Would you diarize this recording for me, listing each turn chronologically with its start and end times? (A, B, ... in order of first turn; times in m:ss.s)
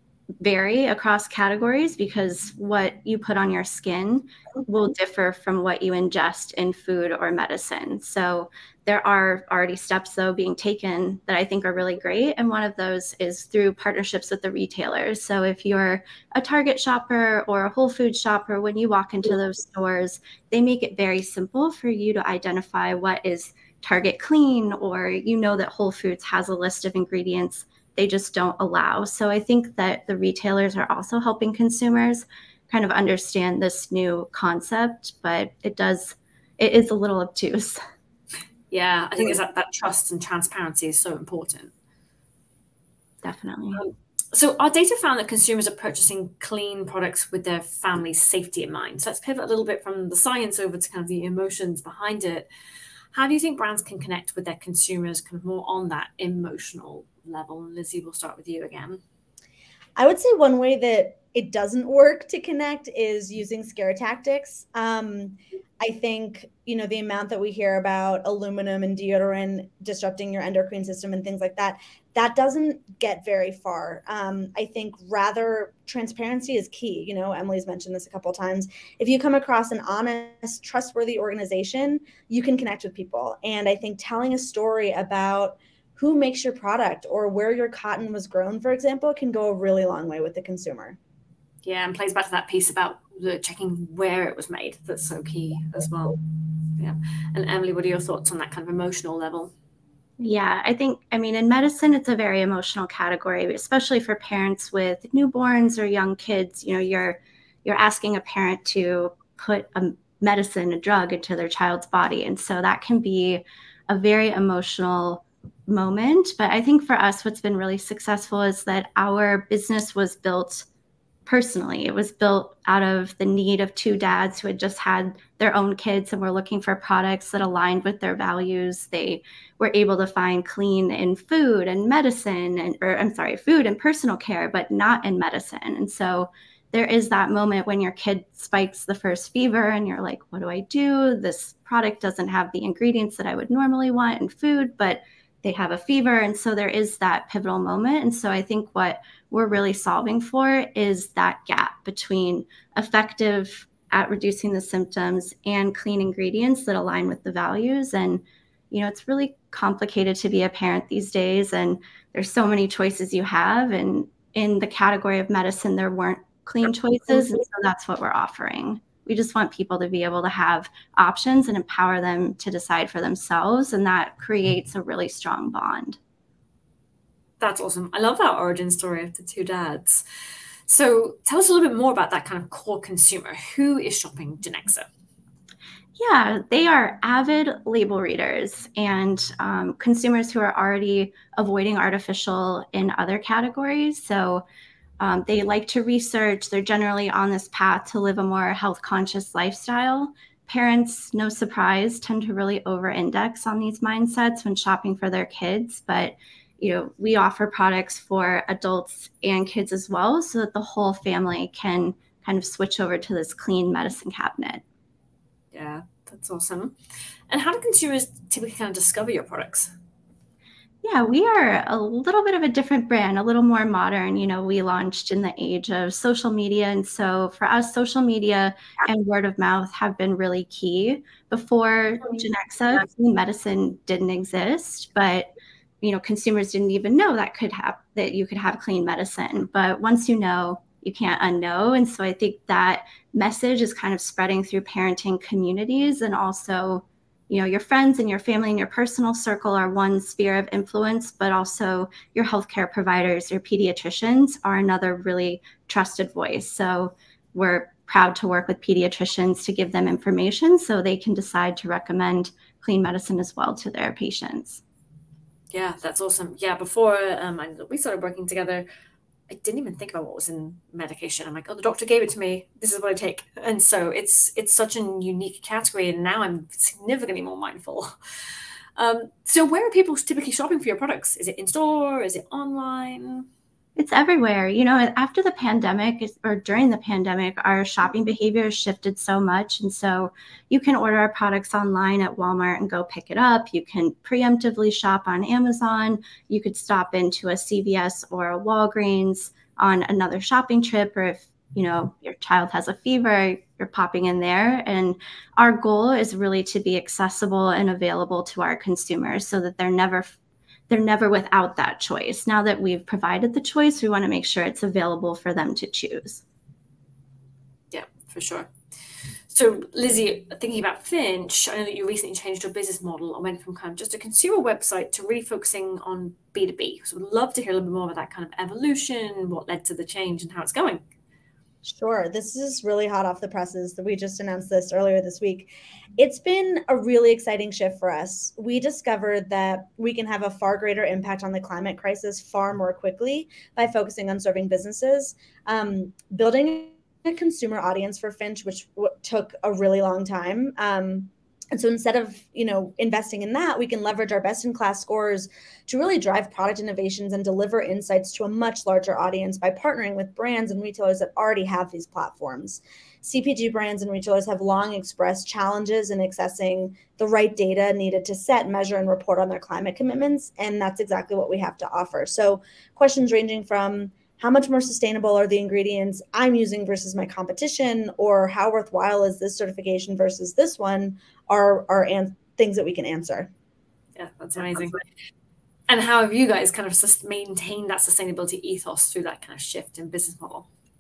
0:00.4-0:37.8 A
0:38.7-0:41.7 B
0:43.2-0:43.8 A
0:43.7-0:52.5 B
0:53.1-0:59.0 B
1:00.0-1:31.0 C
1:31.6-1:36.2 B
1:36.8-1:39.5 B
1:40.2-2:00.7 A
2:01.3-2:56.0 A
2:57.4-3:00.0 B
3:00.7-3:04.9 B
3:06.0-3:14.4 A
3:15.0-3:34.6 A
3:35.5-3:36.8 B
3:37.3-3:39.7 B
3:40.8-3:55.3 A
3:55.8-4:24.6 A
4:25.5-4:28.7 B
4:29.3-4:37.9 B
4:38.8-4:43.3 B
4:43.8-5:10.1 A
5:10.7-5:16.2 A
5:17.7-5:18.5 B
5:19.3-5:30.8 B
5:31.6-6:23.3 C
6:24.0-6:24.8 B
6:25.7-6:30.5 B